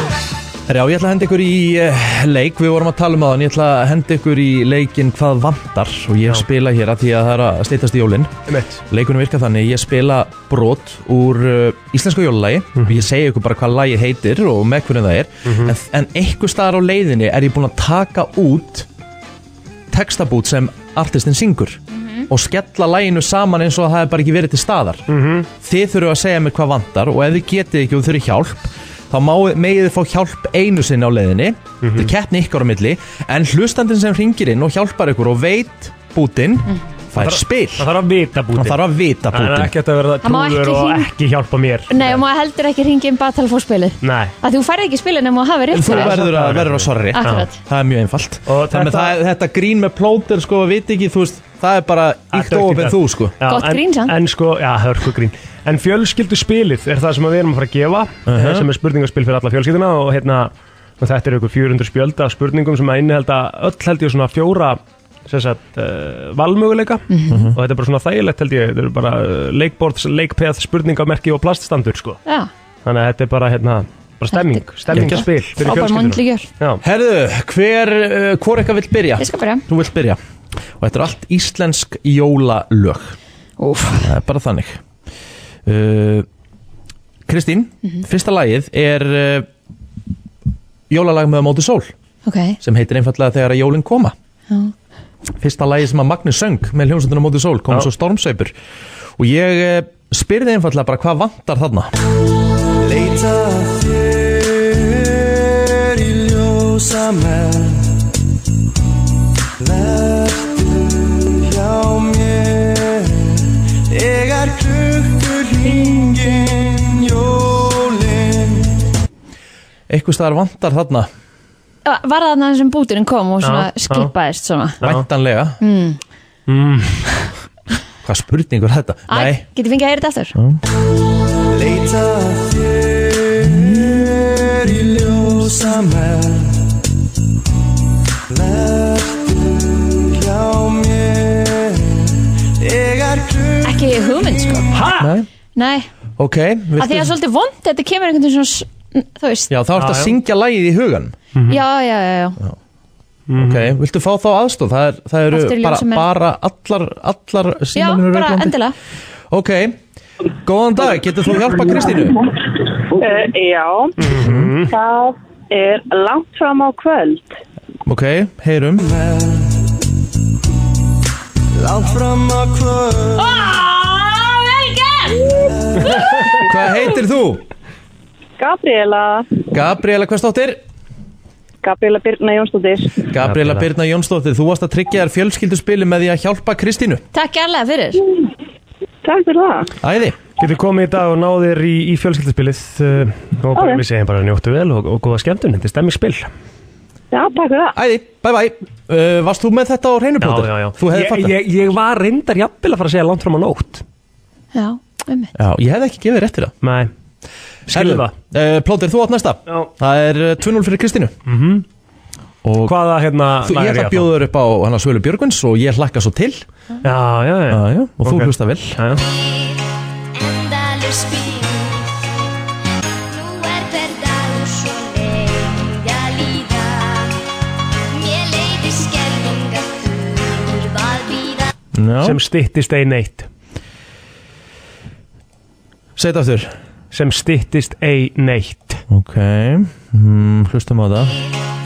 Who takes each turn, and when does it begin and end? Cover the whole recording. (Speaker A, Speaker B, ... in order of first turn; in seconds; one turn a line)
Speaker A: 0.7-18.9
Speaker B: 8.5-8.8
Speaker B: 12.8-13.0
Speaker B: 15.4-15.7
Speaker A: 19.9-25.1
Speaker C: 21.9-22.2
Speaker B: 25.1-25.5
Speaker A: 25.6-37.9
Speaker B: 31.8-32.1
Speaker B: 37.2-42.2
Speaker A: 38.5-39.7
Speaker C: 40.2-41.1
Speaker C: 41.9-46.1
Speaker B: 44.0-44.3
Speaker A: 45.7-53.3
Speaker B: 45.8-47.5
Speaker C: 47.1-47.5
Speaker B: 48.5-49.1
Speaker B: 52.3-72.2
Speaker C: 53.5-54.1
Speaker A: 58.3-58.7
Speaker C: 67.1-67.5
Speaker A: 67.3-67.6
Speaker B: 72.8-76.8
Speaker C: 74.3-76.5
Speaker A: 74.9-75.3
Speaker A: 76.8-80.2
Speaker C: 79.2-79.6
Speaker A: 80.8-83.2
Speaker C: 83.6-84.1
Speaker A: 84.0-84.8
Speaker A: 85.7-86.2
Speaker A: 87.3-89.5
Speaker A: 90.9-91.9
Speaker C: 92.2-92.6
Speaker A: 92.6-94.1
Speaker A: 95.4-98.5
Speaker A: 99.2-101.9
Speaker D: 102.8-107.9
Speaker D: 109.6-110.6
Speaker D: 111.4-113.3
Speaker D: 113.9-118.6
Speaker A: 119.9-121.1
Speaker C: 121.8-124.8
Speaker B: 123.4-124.1
Speaker A: 124.8-125.6
Speaker C: 125.6-126.0
Speaker B: 126.5-127.1
Speaker A: 128.0-129.4
Speaker C: 129.1-130.3
Speaker A: 130.3-130.6
Speaker D: 131.5-136.6
Speaker D: 138.3-139.3
Speaker D: 140.1-144.7
Speaker C: 143.6-144.7
Speaker B: 144.7-145.1
Speaker A: 145.0-145.3
Speaker C: 145.6-145.9
Speaker A: 146.2-147.1
Speaker C: 146.8-149.5
Speaker A: 149.5-151.1
Speaker B: 149.8-150.1
Speaker B: 151.3-151.6
Speaker C: 151.5-152.4
Speaker B: 153.3-153.7
Speaker A: 153.3-158.6
Speaker C: 155.3-156.1
Speaker C: 157.7-158.7
Speaker A: 159.3-159.8
Speaker A: 160.4-162.2
Speaker E: 162.9-163.9
Speaker B: 164.0-164.7
Speaker A: 164.1-164.5
Speaker E: 164.7-167.3
Speaker A: 167.8-168.9
Speaker D: 168.8-169.4
Speaker D: 171.6-173.3
Speaker C: 173.2-175.3
Speaker A: 176.4-177.4
Speaker E: 178.4-179.3
Speaker A: 179.5-180.6
Speaker E: 181.6-183.0
Speaker A: 183.1-187.0
Speaker B: 183.2-183.7
Speaker C: 187.1-188.0
Speaker E: 189.0-189.7
Speaker A: 189.8-190.2
Speaker B: 190.4-196.3
Speaker E: 193.5-193.8
Speaker E: 197.1-197.7
Speaker A: 197.7-201.3
Speaker B: 200.2-203.8
Speaker C: 204.5-205.3
Speaker A: 205.3-206.5
Speaker B: 206.6-206.9
Speaker B: 207.7-208.1
Speaker A: 207.7-211.1
Speaker B: 211.2-211.6
Speaker A: 212.4-212.8
Speaker B: 212.7-214.1
Speaker A: 213.4-216.4
Speaker B: 216.8-219.0
Speaker A: 217.5-218.8
Speaker F: 219.0-219.6
Speaker F: 220.1-221.9
Speaker F: 223.1-227.1
Speaker F: 227.9-231.5
Speaker A: 231.8-232.2
Speaker B: 232.0-233.3
Speaker A: 236.0-236.6
Speaker B: 236.9-238.8
Speaker A: 238.9-241.1